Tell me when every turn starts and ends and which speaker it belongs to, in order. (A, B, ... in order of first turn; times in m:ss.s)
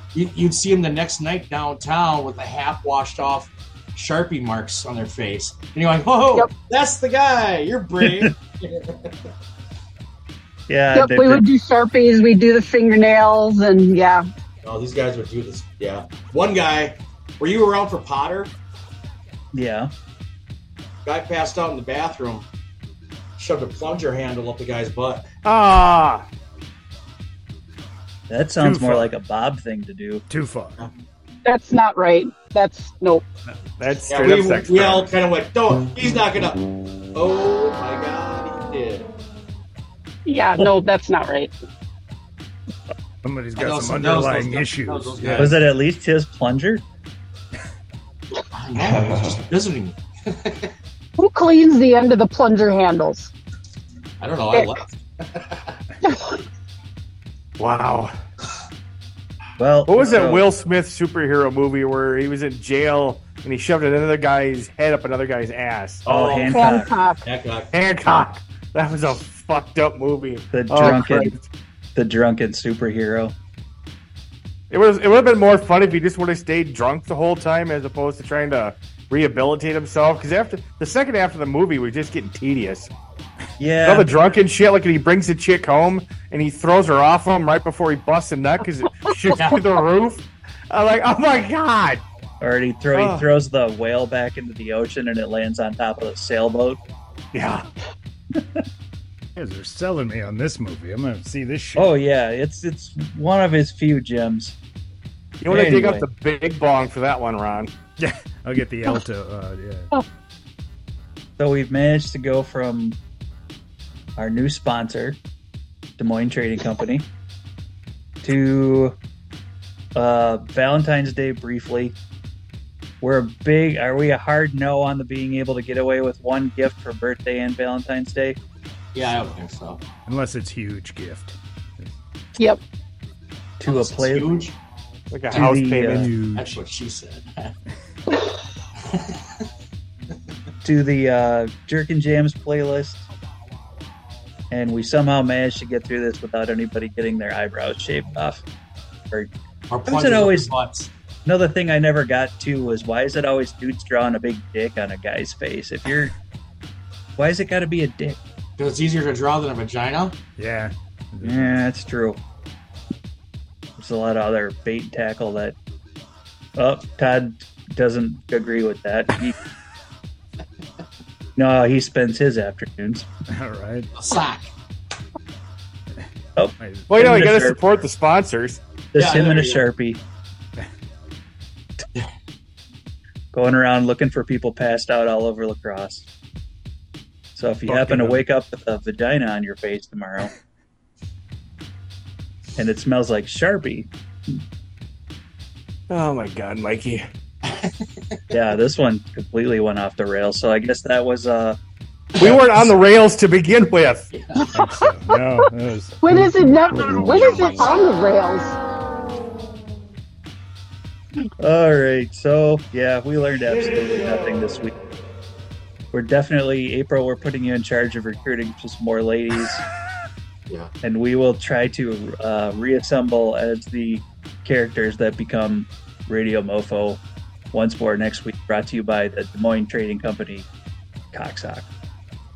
0:00.1-0:09.3 A
0:10.7-0:11.4 B
0:10.9-0:14.2 C
0:14.6-0:18.5 A
0:19.5-0:19.9 B
0:21.0-0:22.4 A
0:23.4-0:25.3 A
0:25.4-0:26.2 D
0:28.3-0:30.2 B
0:28.6-0:29.1 E
0:30.3-0:30.8 E
0:31.4-0:33.2 C
0:33.8-0:35.1 D
0:34.1-0:39.1 A
0:40.2-0:41.5 C
0:43.2-0:45.5 E
0:43.6-0:45.6 A
0:45.4-0:46.8 B
0:48.5-0:50.7 A
0:51.2-0:53.3 C
0:54.2-0:55.8 A
0:54.5-0:54.8 C
0:56.0-0:56.4 C
0:57.6-0:58.2 D
0:59.6-1:00.4 B
0:59.9-1:06.0 D
1:06.0-1:06.7 A
1:06.0-1:06.9 B
1:06.5-1:07.2 C
1:07.2-1:07.7 A
1:07.7-1:11.4 D
1:10.5-1:11.3 B
1:11.9-1:13.3 B
1:14.7-1:22.9 D
1:23.6-1:24.1 B
1:23.8-1:32.0 D
1:29.3-1:29.6 A
1:32.4-1:36.8 B
1:32.9-1:33.2 D
1:37.3-1:37.7 D
1:39.4-1:42.0 E
1:41.8-1:44.5 B
1:45.4-1:47.7 D
1:45.5-1:46.0 B
1:48.0-1:49.9 E
1:51.4-1:53.0 B
1:54.2-1:55.2 B
1:56.0-1:57.1 B
1:58.2-1:59.0 B
1:59.9-2:02.0 B
2:03.0-2:08.4 B
2:08.9-2:09.8 A
2:10.0-2:12.0 E
2:13.6-2:14.5 B
2:13.6-2:14.5 A
2:15.1-2:16.1 D
2:15.3-2:16.1 B
2:15.4-2:16.6 E
2:16.2-2:17.6 A
2:18.9-2:19.2 A
2:20.6-2:23.0 B
2:24.5-2:28.4 B
2:29.7-2:30.9 A
2:29.9-2:30.5 B
2:31.2-2:36.1 B
2:37.2-2:38.2 B
2:38.6-2:40.2 A
2:40.4-2:41.6 E
2:41.2-2:42.2 B
2:43.8-2:45.6 B
2:46.6-2:49.4 B
2:51.4-2:53.1 B
2:53.3-2:53.9 E
2:53.9-2:54.5 A
2:56.4-2:57.6 B
2:56.6-2:57.2 E
2:56.9-2:58.6 D
2:58.9-3:00.0 B
2:58.9-2:59.6 A
3:03.3-3:06.1 B
3:07.3-3:10.3 B
3:07.6-3:08.2 E
3:12.6-3:14.4 B
3:15.9-3:17.0 D
3:17.4-3:17.7 A
3:18.3-3:21.6 B
3:22.2-3:24.1 D
3:24.1-3:24.5 A
3:24.5-3:27.3 E
3:26.0-3:28.6 C
3:31.4-3:34.7 B
3:35.9-3:39.6 B
3:40.8-3:47.0 B
3:47.5-3:50.5 B
3:51.1-3:51.7 B